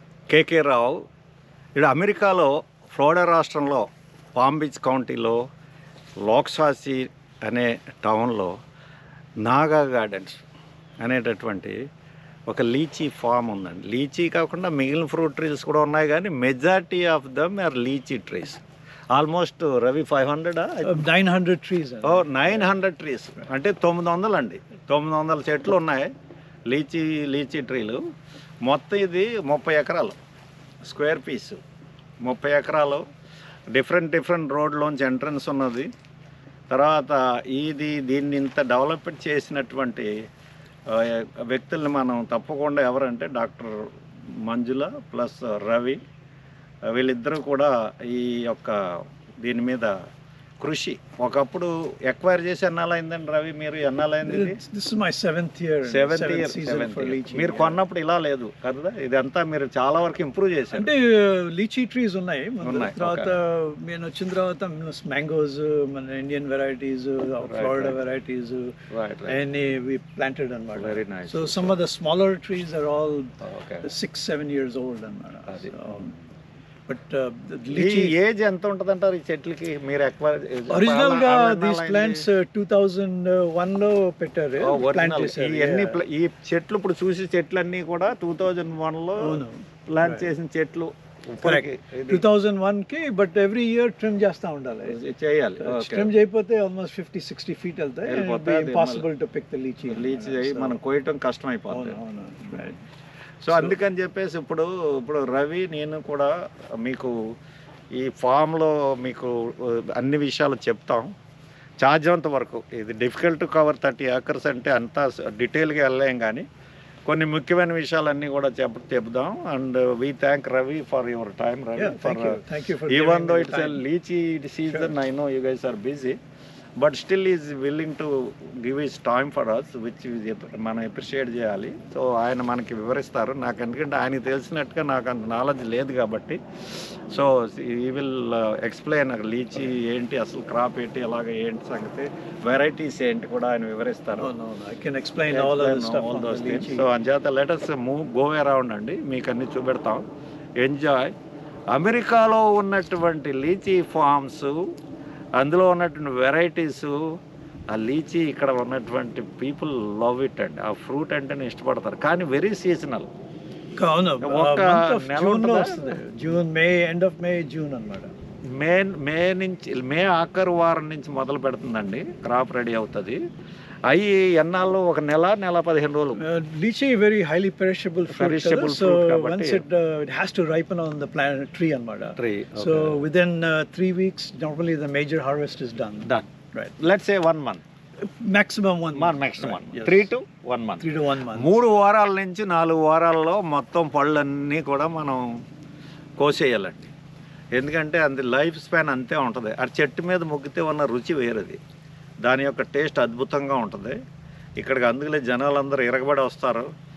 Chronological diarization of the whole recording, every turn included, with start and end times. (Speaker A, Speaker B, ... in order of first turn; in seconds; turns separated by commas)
Speaker A: 0.3-1.0, Speaker A: 1.8-5.4, Speaker A: 6.2-8.5, Speaker A: 9.4-10.4, Speaker A: 11.0-11.8, Speaker A: 12.5-18.6, Speaker A: 19.1-21.0, Speaker B: 20.8-22.7, Speaker A: 22.0-26.1, Speaker A: 26.7-28.0, Speaker A: 28.6-30.2, Speaker A: 30.9-31.6, Speaker A: 32.2-33.0, Speaker A: 33.7-35.9, Speaker A: 36.7-40.1, Speaker A: 40.9-43.9, Speaker A: 44.4-46.0, Speaker A: 46.9-49.9, Speaker A: 50.6-54.6, Speaker B: 54.2-57.8, Speaker A: 55.9-60.9, Speaker B: 60.7-68.7, Speaker A: 62.6-63.3, Speaker A: 67.4-68.0, Speaker A: 68.9-69.4, Speaker B: 69.2-73.3, Speaker A: 70.7-71.8, Speaker A: 73.4-73.8, Speaker B: 73.8-76.1, Speaker A: 75.5-76.2, Speaker B: 76.9-78.1, Speaker A: 77.7-82.2, Speaker B: 80.7-86.0, Speaker A: 84.6-92.2, Speaker B: 89.2-90.3, Speaker B: 91.4-95.0, Speaker A: 94.8-96.1, Speaker B: 95.6-100.8, Speaker A: 98.1-99.0, Speaker A: 99.9-102.0, Speaker B: 101.7-102.8, Speaker A: 103.5-107.1, Speaker B: 103.5-103.7, Speaker A: 107.9-111.1, Speaker A: 111.8-116.5, Speaker A: 117.1-126.2, Speaker B: 121.8-123.8, Speaker A: 126.8-136.4, Speaker A: 137.1-144.3, Speaker B: 144.2-146.8, Speaker A: 145.3-150.0, Speaker A: 150.6-151.1, Speaker A: 151.7-154.7, Speaker A: 155.4-157.2, Speaker A: 157.7-163.1, Speaker B: 163.8-168.1, Speaker A: 164.2-166.0, Speaker A: 168.5-173.2, Speaker A: 173.9-176.2, Speaker B: 176.2-186.7, Speaker A: 178.1-179.6, Speaker A: 182.2-183.0, Speaker A: 186.8-187.6, Speaker B: 188.2-190.1, Speaker A: 188.9-195.4, Speaker B: 190.8-191.5, Speaker A: 196.2-196.9, Speaker A: 197.5-201.6, Speaker A: 202.2-204.0, Speaker A: 204.6-206.7